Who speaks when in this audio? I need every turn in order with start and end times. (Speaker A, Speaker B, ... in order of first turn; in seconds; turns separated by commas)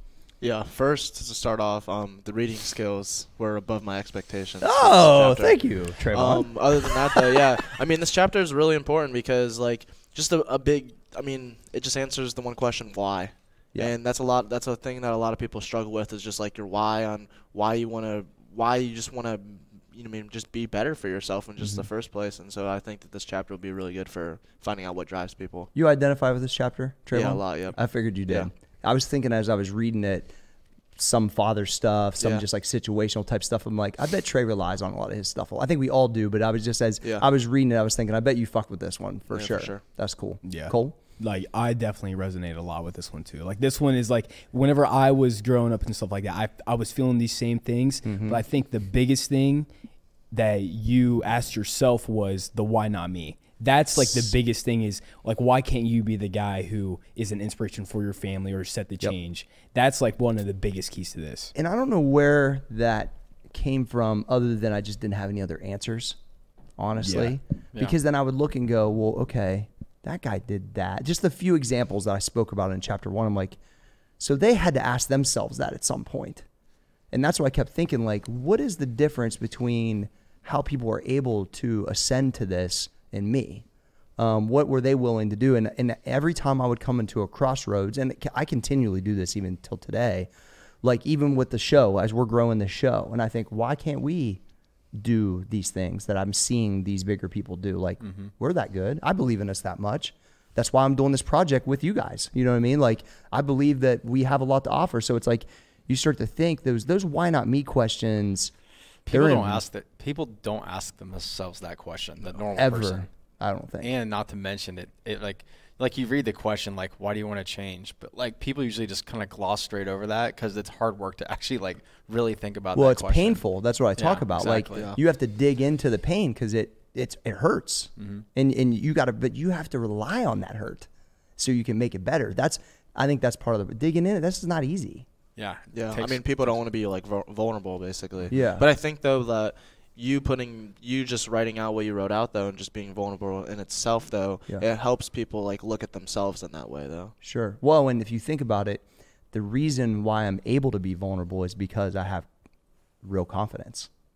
Speaker A: 0.4-25.7, Speaker B: 4.6-7.3, Speaker B: 25.8-30.3, Speaker A: 27.1-28.5, Speaker B: 31.0-41.0, Speaker A: 32.2-32.4, Speaker A: 39.3-39.8, Speaker C: 40.4-49.7, Speaker B: 48.0-48.4, Speaker C: 50.3-61.5, Speaker B: 54.0-54.3, Speaker B: 61.5-66.2, Speaker B: 66.8-73.6, Speaker C: 67.0-67.4, Speaker B: 74.2-76.5, Speaker B: 77.1-83.7, Speaker B: 84.2-90.3, Speaker B: 90.8-94.4, Speaker B: 95.0-108.5, Speaker D: 98.0-98.3, Speaker D: 109.1-113.1, Speaker B: 109.1-109.6, Speaker B: 112.6-113.9, Speaker D: 113.8-123.4, Speaker B: 122.8-135.1, Speaker D: 124.0-125.0, Speaker D: 128.0-128.2, Speaker D: 135.4-136.6, Speaker A: 135.7-147.1, Speaker B: 138.3-138.7, Speaker B: 147.2-152.3, Speaker B: 153.0-153.9